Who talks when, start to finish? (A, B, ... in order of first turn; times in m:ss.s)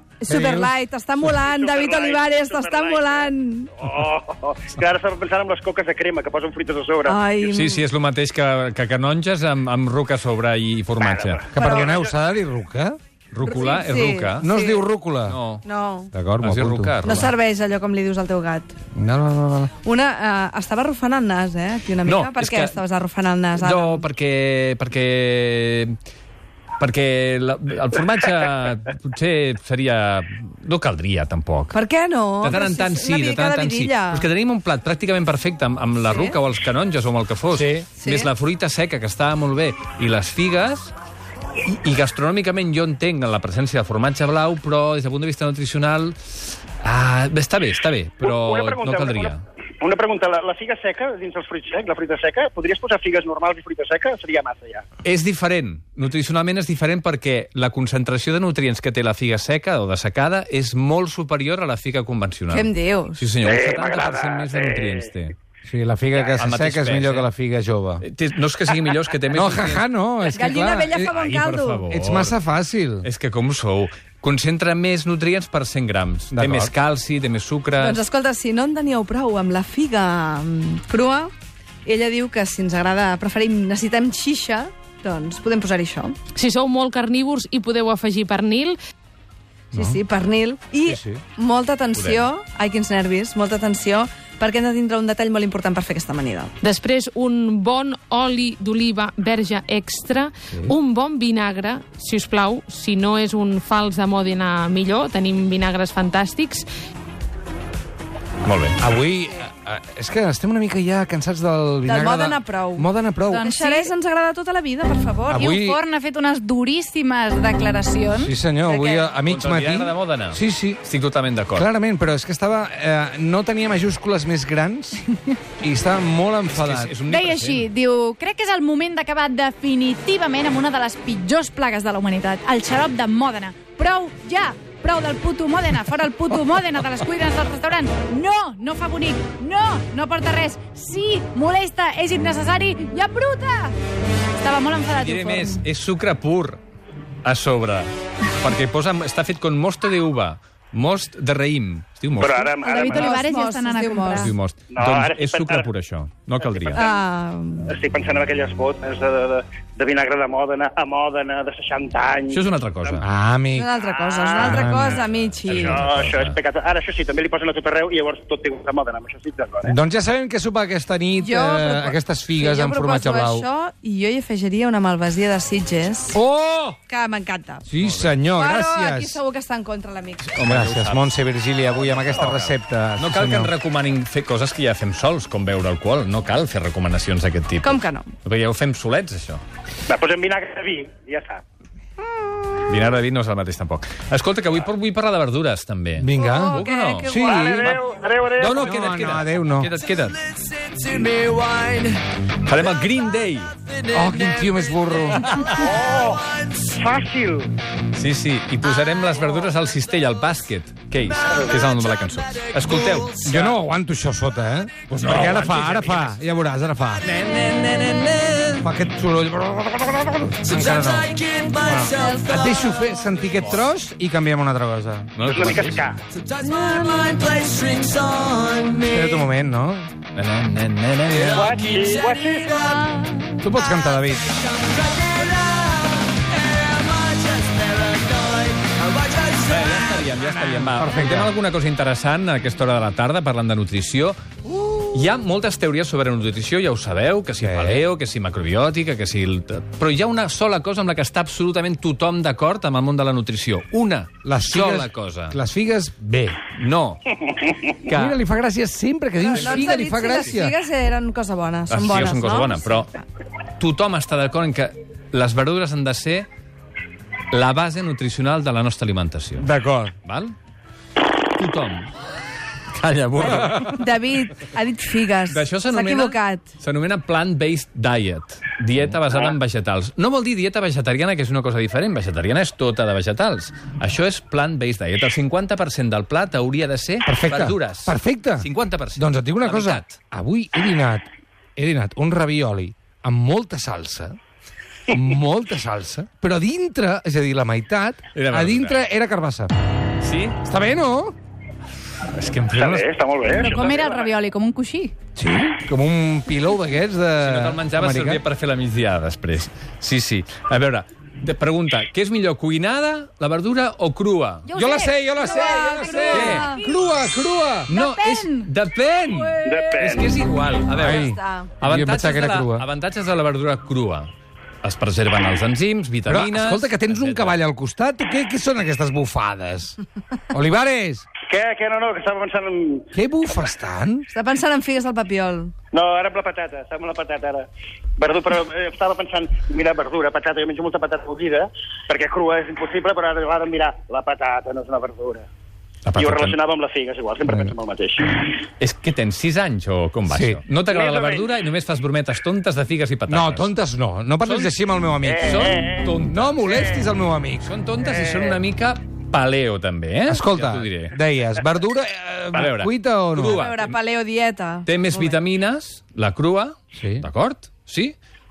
0:00.2-0:03.7 A
0:00.3-0:00.7 B
0:01.4-0:07.5 C
0:07.0-0:07.8 A
0:07.5-0:11.5 D
0:11.0-0:12.1 C
0:11.5-0:13.0 B
0:11.6-0:11.9 A
0:13.3-0:14.5 D
0:13.4-0:14.8 A
0:14.4-0:15.4 B
0:15.3-0:15.6 D
0:15.6-0:16.1 A
0:16.1-0:16.9 B
0:16.4-0:17.3 D
0:17.0-0:18.7 A
0:18.9-0:19.7 B
0:19.8-0:24.1 A
0:22.0-0:22.8 D
0:23.5-0:26.0 D
0:26.8-0:31.8 D
0:31.7-0:34.3 A
0:32.4-0:40.9 D
0:36.1-0:36.4 A
0:37.5-0:37.8 B
0:38.0-0:38.3 A
0:41.6-0:49.4 D
0:48.2-0:54.8 C
0:55.0-1:05.3 D
1:02.5-1:03.3 A
1:03.4-1:05.0 C
1:05.6-1:08.0 B
1:06.4-1:07.3 D
1:08.0-1:09.8 D
1:09.3-1:11.2 B
1:10.2-1:11.8 A
1:11.1-1:12.4 D
1:11.9-1:13.1 B
1:13.0-1:18.0 D
1:16.3-1:16.7 B
1:17.8-1:21.3 A
1:21.8-1:26.2 A
1:26.3-1:28.8 E
1:29.7-1:30.0 B
1:29.7-1:36.5 A
1:30.9-1:31.2 B
1:31.9-1:32.2 D
1:36.6-1:46.6 E
1:48.4-1:48.8 D
1:48.8-1:53.5 B
1:51.8-1:55.4 A
1:53.3-1:53.9 F
1:55.3-1:55.8 B
1:55.3-1:58.3 F
1:58.1-2:00.8 B
1:58.6-1:59.1 A
1:59.3-2:01.7 D
2:01.5-2:05.1 B
2:05.6-2:06.9 B
2:06.5-2:07.7 D
2:07.0-2:23.7 F
2:24.4-2:25.6 F
2:24.9-2:26.6 D
2:27.2-2:32.6 D
2:32.2-2:33.2 C
2:32.6-2:34.3 A
2:32.7-2:34.3 F
2:34.1-2:36.8 D
2:34.7-2:35.7 C
2:36.4-2:37.0 C
2:36.7-2:37.7 A
2:37.6-2:43.0 C
2:42.3-2:43.0 D
2:43.0-2:43.7 B
2:43.5-2:45.8 A
2:43.7-2:44.6 C
2:44.4-2:45.0 B
2:44.6-2:46.4 D
2:45.5-2:49.7 C
2:49.6-2:53.4 B
2:51.2-2:56.2 A
2:56.1-2:56.8 B
2:56.9-2:57.6 A
2:57.6-2:59.2 B
2:57.8-2:58.1 D
2:58.3-3:00.3 A
3:00.2-3:01.1 D
3:00.4-3:03.5 B
3:01.7-3:09.4 D
3:07.6-3:08.1 A
3:09.9-3:11.4 C
3:12.6-3:17.8 D
3:16.0-3:17.7 B
3:16.1-3:17.4 A
3:17.2-3:18.8 C
3:18.4-3:19.7 B
3:18.4-3:20.2 D
3:21.2-3:21.5 G
3:22.4-3:23.5 D
3:23.9-3:25.3 B
3:25.3-3:25.6 D
3:25.5-3:27.5 C
3:27.9-3:33.6 D
3:33.2-3:37.1 B
3:34.9-3:36.2 D
3:37.0-3:38.6 D
3:38.6-3:45.1 B
3:45.2-3:45.8 D
3:45.2-3:46.0 C
3:46.8-3:48.8 G
3:48.8-3:49.9 B
3:50.1-3:51.6 D
3:51.2-3:52.9 C
3:53.4-3:54.3 B
3:59.2-4:04.2 D
4:00.2-4:01.3 B
4:04.8-4:15.4 D
4:07.4-4:07.8 B
4:14.2-4:16.4 B
4:16.5-4:17.2 D
4:17.8-4:18.2 D
4:17.9-4:20.5 B
4:19.2-4:23.0 A
4:21.7-4:22.9 D
4:23.6-4:26.3 D
4:27.3-4:29.5 D
4:29.4-4:29.9 B
4:30.0-4:30.3 D
4:31.4-4:31.9 D
4:32.7-4:33.8 D
4:33.2-4:36.4 A
4:35.3-4:49.9 D
4:47.0-4:51.0 B
4:51.6-4:54.2 B
4:54.9-4:59.5 B
4:58.1-4:58.8 D
5:00.0-5:00.4 D
5:00.4-5:01.1 B
5:02.1-5:02.9 D
5:02.5-5:04.1 C
5:03.2-5:04.9 F
5:05.2-5:08.2 B
5:07.2-5:14.5 D
5:14.4-5:16.6 F
5:14.5-5:17.7 B
5:15.4-5:16.6 A
5:15.9-5:16.5 D
5:17.7-5:24.1 D
5:17.7-5:18.5 F
5:19.0-5:19.9 F
5:19.4-5:20.1 C
5:20.7-5:22.6 B
5:20.8-5:21.5 A
5:24.6-5:27.4 D
5:26.0-5:29.8 B
5:30.3-5:31.0 B
5:31.3-5:32.9 C
5:32.9-5:34.1 B
5:34.1-5:35.5 A
5:35.7-5:37.5 C
5:38.0-5:45.2 C
5:45.8-5:46.4 D
5:45.9-5:48.3 C
5:47.3-5:47.5 B
5:48.6-5:53.5 D
5:50.1-5:50.4 B
5:50.6-5:51.3 C
5:53.1-5:55.5 B
5:54.2-5:54.5 D
5:55.0-5:56.8 C
5:55.2-5:56.4 D
5:56.0-5:57.5 B
5:57.4-6:00.9 D
5:57.8-5:58.4 C
6:00.1-6:03.4 B
6:02.3-6:03.8 D
6:03.2-6:05.2 A
6:04.6-6:07.9 D
6:06.7-6:07.1 B